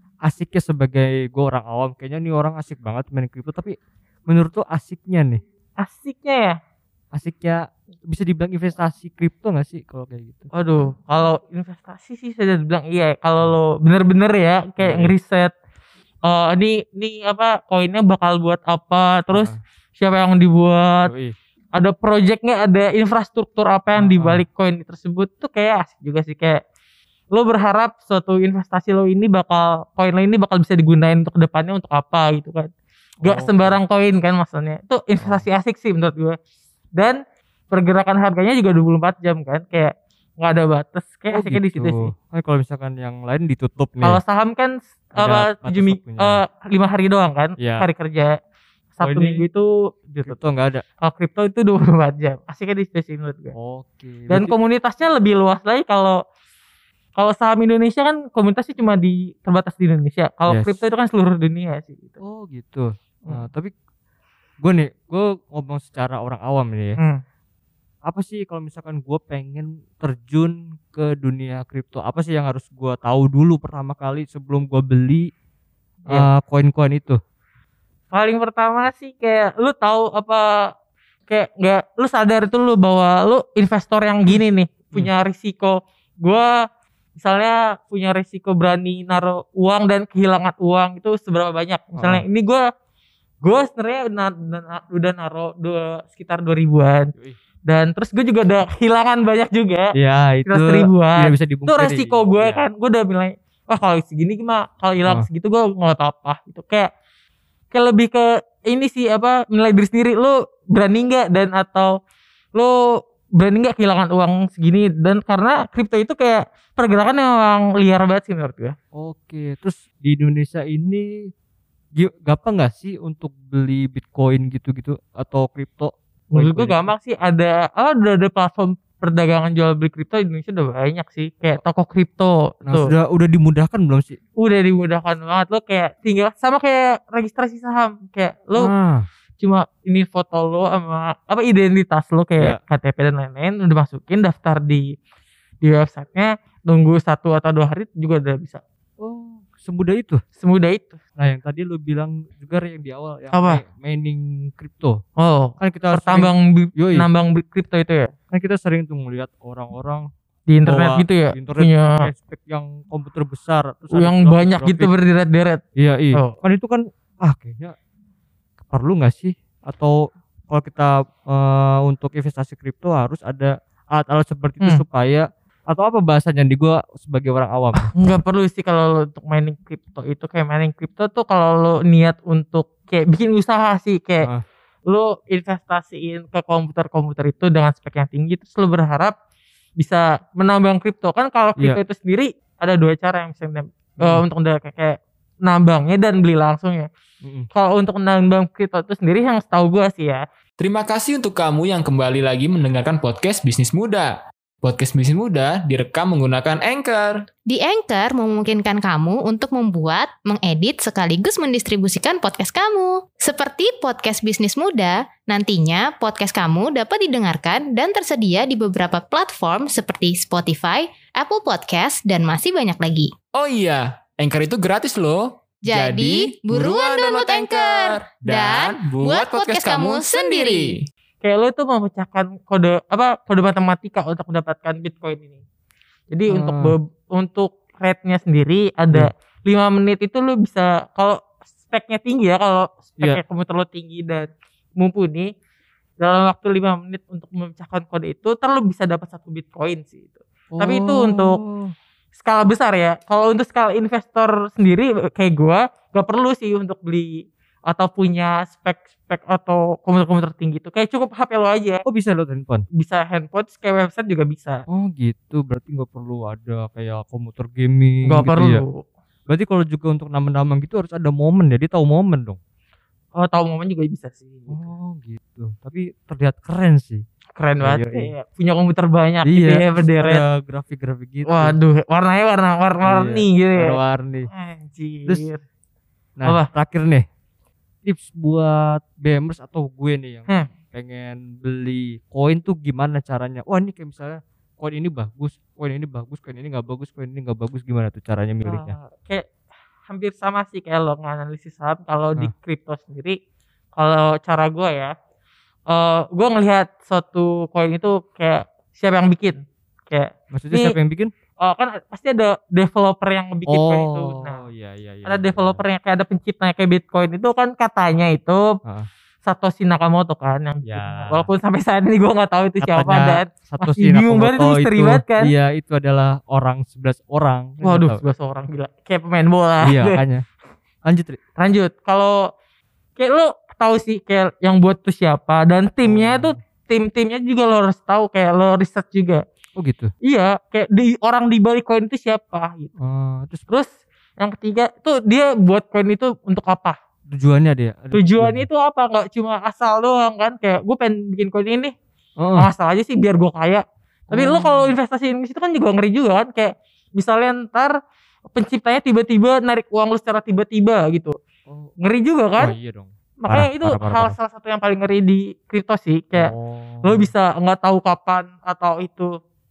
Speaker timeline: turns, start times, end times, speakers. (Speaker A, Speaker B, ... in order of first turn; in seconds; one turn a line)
Speaker A: 0.2-3.7
Speaker A: 4.3-5.4
Speaker B: 5.8-6.5
Speaker A: 7.1-10.5
Speaker B: 10.5-15.5
Speaker A: 14.8-15.1
Speaker B: 16.2-21.1
Speaker A: 19.3-19.6
Speaker A: 21.1-21.4
Speaker B: 21.8-26.6
Speaker A: 23.9-24.4
Speaker B: 27.3-32.7
Speaker A: 33.2-33.8
Speaker B: 33.2-36.4
Speaker A: 35.2-35.4
Speaker B: 37.7-42.1
Speaker A: 41.3-44.2
Speaker B: 44.0-48.4
Speaker A: 45.1-46.4
Speaker A: 47.6-47.9
Speaker B: 48.9-50.4
Speaker A: 49.0-49.4
Speaker A: 50.2-50.9
Speaker B: 51.0-53.5
Speaker A: 53.5-54.6
Speaker B: 54.3-56.2
Speaker B: 57.2-62.2
Speaker A: 60.5-60.8
Speaker A: 62.2-63.7
Speaker A: 64.6-67.0
Speaker A: 68.0-75.3
Speaker A: 76.1-77.2
Speaker B: 78.1-80.5
Speaker B: 81.3-86.5
Speaker B: 87.2-92.6
Speaker A: 92.0-92.2
Speaker B: 93.4-97.1
Speaker B: 97.7-99.9
Speaker A: 99.9-102.7
Speaker B: 100.5-106.9
Speaker B: 107.7-111.9
Speaker B: 113.4-118.8
Speaker A: 118.9-121.0
Speaker A: 122.0-126.9
Speaker B: 126.3-132.9
Speaker A: 132.6-134.2
Speaker B: 134.4-138.7
Speaker A: 138.6-139.1
Speaker B: 139.4-144.9
Speaker B: 145.6-148.6
Speaker A: 149.0-150.2
Speaker B: 150.4-151.0
Speaker A: 151.2-155.0
Speaker B: 153.3-153.6
Speaker B: 155.2-158.1
Speaker A: 155.6-157.1
Speaker A: 158.3-160.1
Speaker B: 160.5-162.1
Speaker A: 160.7-164.9
Speaker B: 163.9-165.6
Speaker A: 165.8-167.8
Speaker A: 168.7-169.9
Speaker A: 170.5-177.9
Speaker B: 177.9-184.3
Speaker B: 184.9-189.1
Speaker B: 189.8-196.9
Speaker A: 197.2-197.5
Speaker B: 197.5-200.2
Speaker C: 200.6-207.2
Speaker D: 207.5-223.1
Speaker C: 223.3-230.8
Speaker D: 225.6-230.7
Speaker B: 231.2-235.4
Speaker B: 236.1-245.3
Speaker A: 236.3-236.8
Speaker B: 246.0-251.4
Speaker A: 250.5-251.7
Speaker B: 252.1-261.8
Speaker A: 261.8-262.6
Speaker B: 262.8-264.6
Speaker A: 264.7-268.6
Speaker B: 268.1-268.9
Speaker A: 269.3-272.4
Speaker B: 273.1-274.7
Speaker A: 274.5-277.0
Speaker B: 277.4-280.2
Speaker A: 277.6-278.1
Speaker A: 279.2-281.6
Speaker B: 281.2-283.8
Speaker A: 282.8-284.3
Speaker B: 284.3-285.4
Speaker A: 286.2-287.0
Speaker A: 287.9-298.7
Speaker B: 298.4-299.3
Speaker B: 299.9-303.1
Speaker B: 303.8-304.9
Speaker B: 305.7-310.8
Speaker A: 310.3-311.1
Speaker B: 311.4-314.4
Speaker A: 313.5-315.6
Speaker B: 315.1-318.5
Speaker B: 319.2-325.3
Speaker A: 320.6-321.3
Speaker A: 322.6-328.0
Speaker B: 327.6-330.0
Speaker A: 329.6-330.2
Speaker A: 330.9-331.2
Speaker B: 331.4-332.1
Speaker B: 333.0-339.2
Speaker A: 335.8-336.4
Speaker A: 339.6-339.9
Speaker B: 340.0-342.7
Speaker A: 342.8-343.4
Speaker B: 343.5-346.8
Speaker A: 347.1-348.5
Speaker B: 347.9-351.7
Speaker A: 352.2-352.5
Speaker B: 352.4-357.7
Speaker A: 354.1-354.7
Speaker B: 358.3-361.1
Speaker A: 361.5-361.7
Speaker B: 361.8-362.5
Speaker A: 362.4-364.1
Speaker B: 363.2-366.3
Speaker A: 366.1-367.1
Speaker B: 366.8-369.1